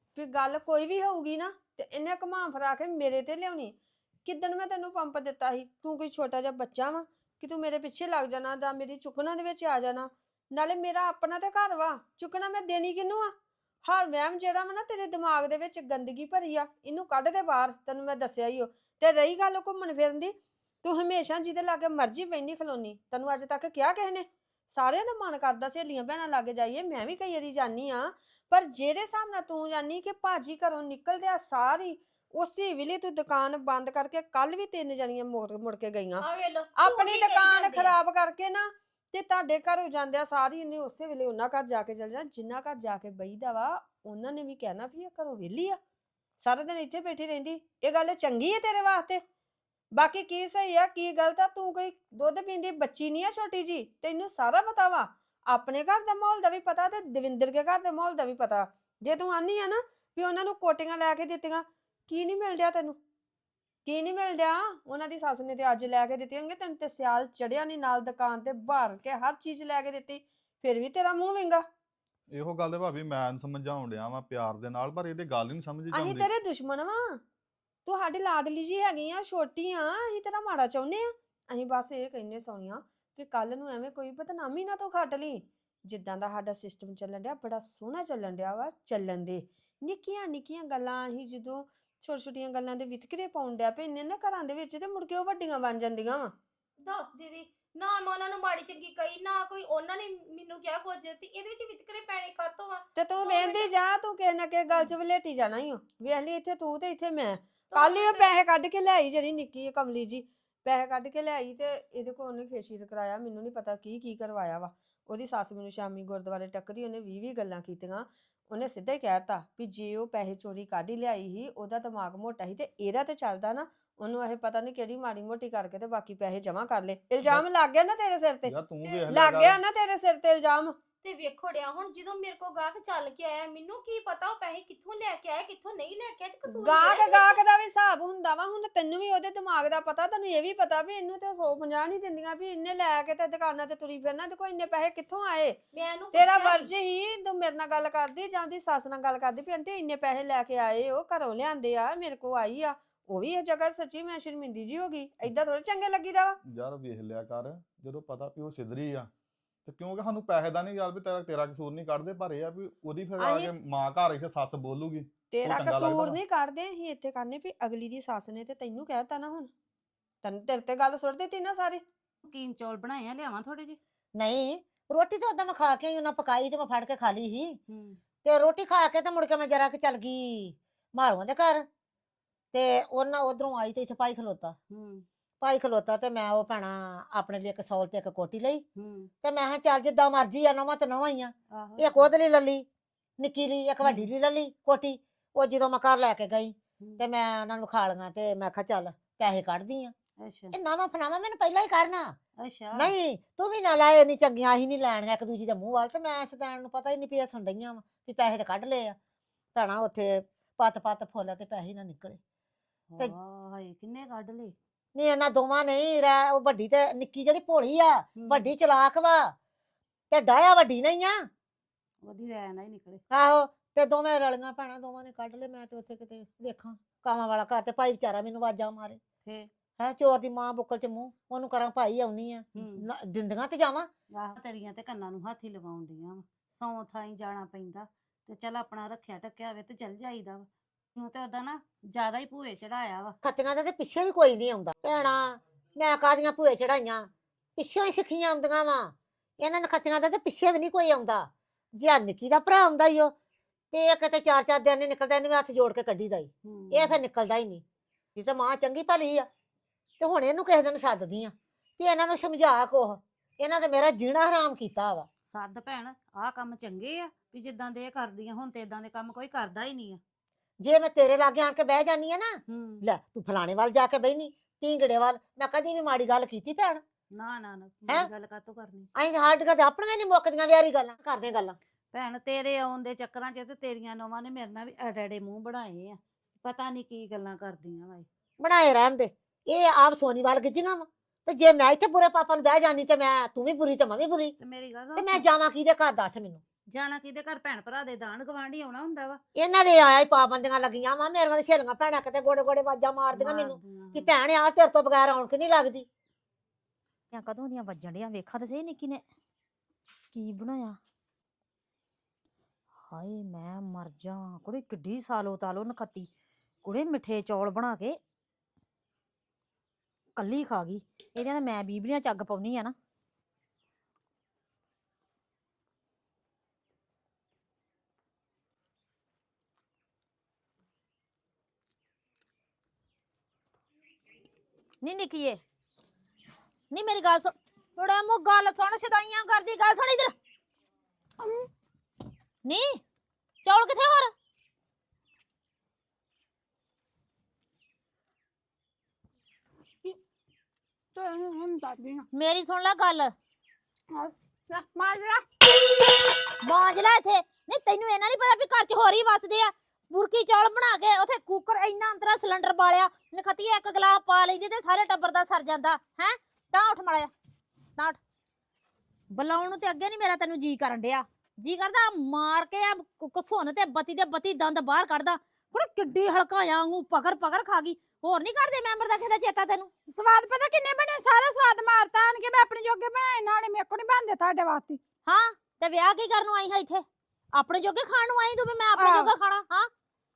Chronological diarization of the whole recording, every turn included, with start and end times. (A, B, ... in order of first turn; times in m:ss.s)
0:00.2-0:13.3 A
0:13.8-0:36.2 A
0:36.2-0:37.9 B
0:36.8-0:45.8 A
0:46.4-0:49.2 A
0:49.9-1:03.0 A
1:03.9-1:11.6 A
1:12.3-1:16.3 C
1:15.9-1:17.2 A
1:17.9-1:36.3 A
1:36.8-1:43.7 B
1:43.0-2:08.5 A
1:47.7-1:48.3 B
2:08.4-2:09.6 C
2:09.1-2:10.8 A
2:11.0-2:17.4 B
2:16.5-2:25.6 A
2:25.7-2:26.7 B
2:26.1-2:36.4 A
2:36.5-2:39.1 C
2:39.6-2:46.2 C
2:43.2-2:43.5 A
2:45.3-2:49.5 A
2:50.2-2:51.8 A
2:52.2-2:53.8 D
2:54.2-2:57.6 E
2:57.7-2:58.0 D
2:58.2-3:01.6 E
3:02.5-3:04.6 E
3:04.7-3:05.0 D
3:05.4-3:08.6 E
3:08.8-3:09.1 D
3:09.2-3:12.7 E
3:11.5-3:12.1 D
3:13.2-3:19.9 E
3:13.8-3:14.1 D
3:20.2-3:20.5 D
3:20.5-3:22.2 E
3:22.4-3:22.9 D
3:22.7-3:29.0 E
3:29.6-3:32.2 E
3:32.9-3:34.6 D
3:35.0-3:39.3 E
3:38.2-3:38.5 D
3:40.1-3:41.3 E
3:42.0-3:43.0 D
3:43.1-3:49.0 E
3:49.8-3:53.9 E
3:52.6-3:52.8 D
3:54.2-4:03.2 D
4:03.2-4:13.1 E
4:13.7-4:17.6 E
4:16.5-4:17.0 D
4:18.2-4:19.3 E
4:20.0-4:25.1 E
4:25.3-4:30.0 D
4:30.6-4:36.8 E
4:32.5-4:32.8 D
4:37.2-4:38.9 D
4:39.0-4:41.6 E
4:41.9-4:48.1 D
4:48.4-4:54.4 E
4:54.4-4:55.2 D
4:55.0-4:56.4 E
4:56.7-4:59.2 D
4:59.4-5:05.9 E
5:03.1-5:04.1 D
5:07.1-5:09.0 F
5:10.1-5:10.8 F
5:12.9-5:16.1 F
5:16.6-5:18.0 F
5:20.2-5:22.7 F
5:34.8-5:35.4 F
5:36.7-5:40.1 F
5:41.2-5:41.5 G
5:42.4-5:42.8 F
5:43.4-5:44.1 F
5:51.0-5:52.0 G
5:52.1-5:53.1 F
5:53.9-5:55.3 G
5:56.4-6:07.1 F
6:09.1-6:19.7 F
6:19.9-6:24.8 G
6:25.1-6:29.7 F
6:28.8-6:29.1 G